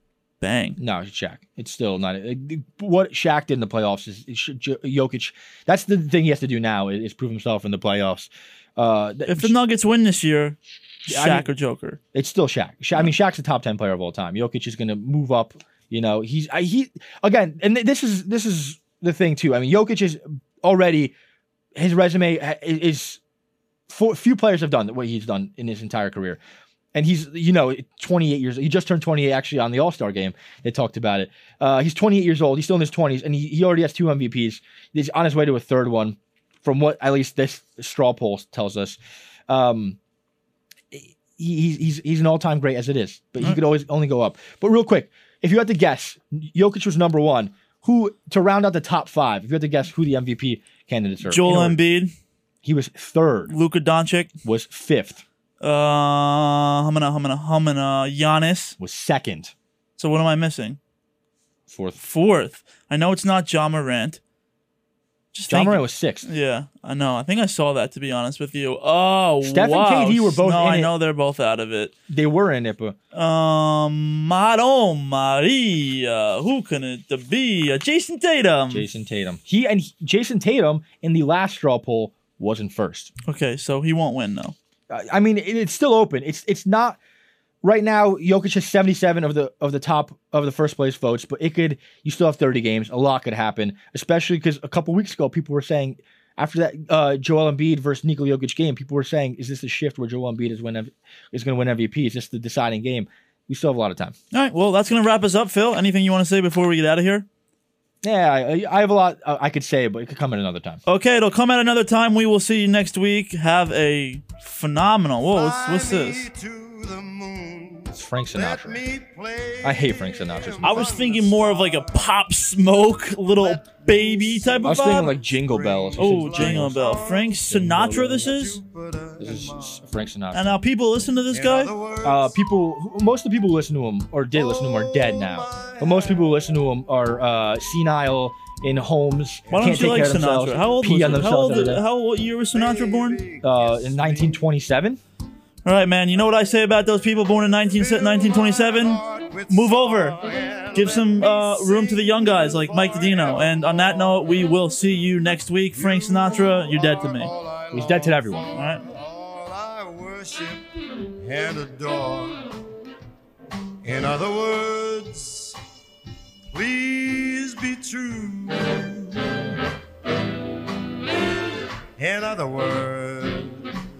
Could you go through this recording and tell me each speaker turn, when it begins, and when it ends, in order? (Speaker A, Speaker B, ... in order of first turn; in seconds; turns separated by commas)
Speaker A: 0.4-0.8, Speaker B: 0.8-9.6, Speaker A: 9.3-12.0, Speaker B: 11.1-11.5, Speaker B: 12.1-21.1, Speaker B: 21.8-23.2, Speaker B: 23.9-26.4, Speaker B: 26.9-40.0, Speaker B: 40.9-51.8, Speaker A: 51.2-52.1, Speaker B: 52.6-53.5, Speaker A: 53.5-54.3, Speaker B: 54.5-55.2, Speaker A: 55.6-58.8, Speaker B: 58.8-59.5, Speaker A: 60.0-60.8, Speaker B: 61.7-62.0, Speaker A: 62.0-64.2, Speaker A: 65.3-71.9, Speaker B: 65.5-66.3, Speaker B: 69.4-70.9, Speaker B: 72.1-73.0, Speaker A: 73.1-78.9, Speaker B: 78.7-83.1, Speaker A: 83.3-84.5, Speaker B: 84.9-87.0, Speaker B: 87.6-104.2, Speaker A: 104.3-107.3, Speaker B: 108.0-110.8, Speaker A: 110.9-116.3, Speaker C: 115.3-122.1, Speaker B: 117.9-118.8, Speaker B: 119.6-121.0, Speaker A: 120.6-125.2, Speaker C: 123.4-127.5, Speaker B: 124.6-128.4, Speaker A: 126.0-128.6, Speaker C: 128.1-129.8, Speaker B: 129.2-130.5, Speaker A: 130.3-131.8, Speaker C: 131.3-132.3, Speaker B: 132.0-141.8, Speaker C: 134.4-136.3, Speaker C: 139.5-140.6, Speaker A: 139.5-143.3, Speaker C: 141.2-141.4, Speaker C: 142.5-144.4, Speaker B: 143.4-145.0, Speaker A: 145.7-157.3, Speaker C: 147.8-153.9, Speaker C: 155.7-160.7, Speaker B: 157.7-158.5, Speaker A: 158.5-158.8, Speaker C: 161.2-162.6, Speaker C: 163.8-165.6, Speaker C: 166.5-169.3, Speaker C: 172.0-173.8